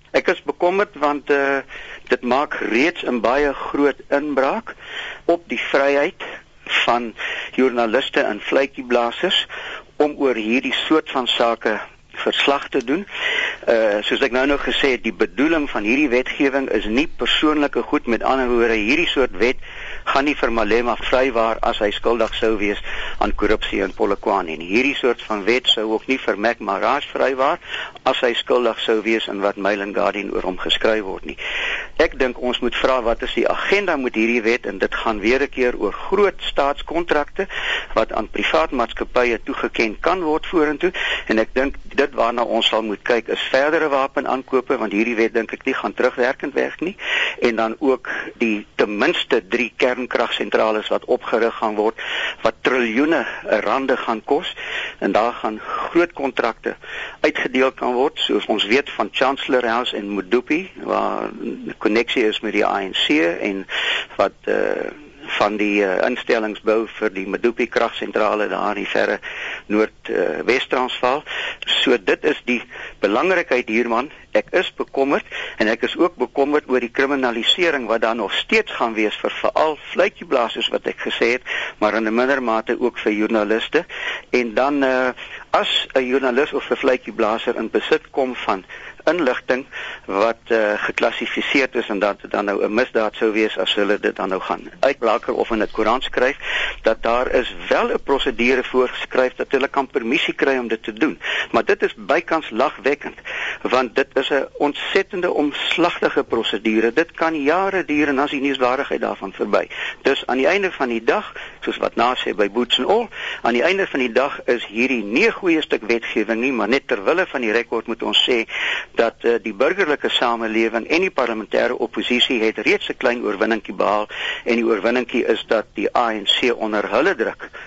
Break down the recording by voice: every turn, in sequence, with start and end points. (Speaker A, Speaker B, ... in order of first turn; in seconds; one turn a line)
Speaker A: 0.1-4.7
Speaker A: 5.3-9.4
Speaker A: 10.0-13.1
Speaker A: 13.7-31.4
Speaker A: 32.0-127.5